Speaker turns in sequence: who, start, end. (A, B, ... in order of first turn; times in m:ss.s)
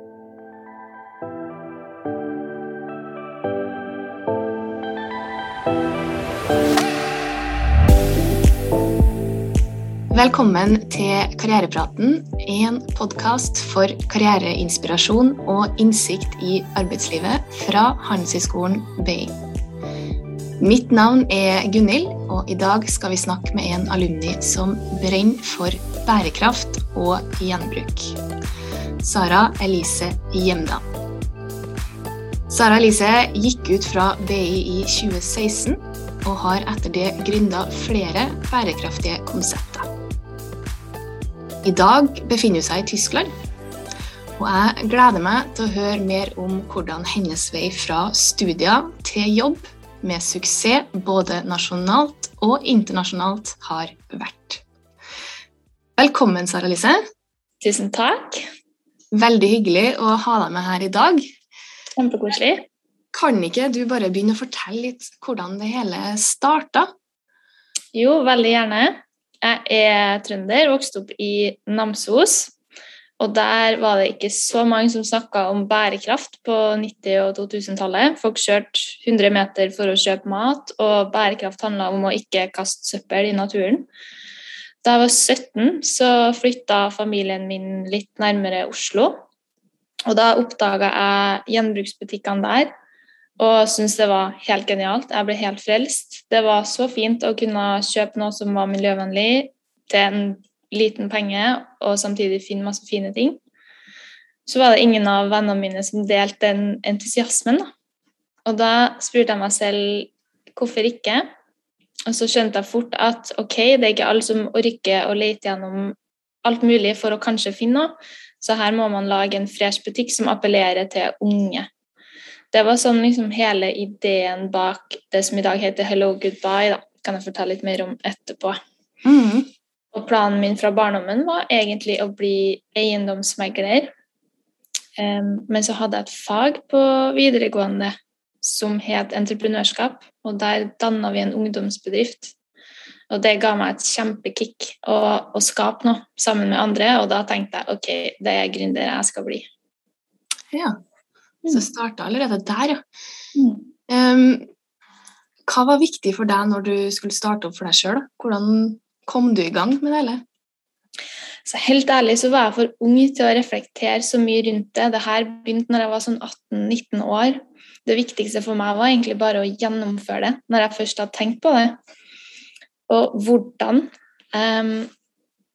0:10.1-0:19.3 A
0:20.6-0:28.2 A
0:29.0-0:30.8 A
0:32.5-0:39.9 A
0:41.6-0:43.3 A
0:44.4-0:54.6 A
0:56.0-0:57.0 A
0:57.6-0:58.5 B
0:59.1-1:01.2 A
1:02.0-1:02.6 B
1:03.1-1:06.9 A
1:07.9-1:12.5 B
1:13.2-1:23.9 B
1:24.8-1:29.2 B
1:30.1-1:32.7 B
1:33.4-1:43.4 B
1:44.4-1:47.7 B
1:48.4-1:51.3 B
1:52.1-2:01.7 B
2:02.5-2:08.6 B
2:09.0-2:09.5 A
2:09.9-2:13.9 B
2:15.0-2:22.3 B
2:23.1-2:29.4 B
2:30.5-2:30.8 A
2:31.5-2:32.8 A
2:33.3-2:33.6 B
2:33.9-2:34.5 A
2:35.5-2:40.2 A
2:41.4-2:51.8 B
2:52.9-2:54.9 B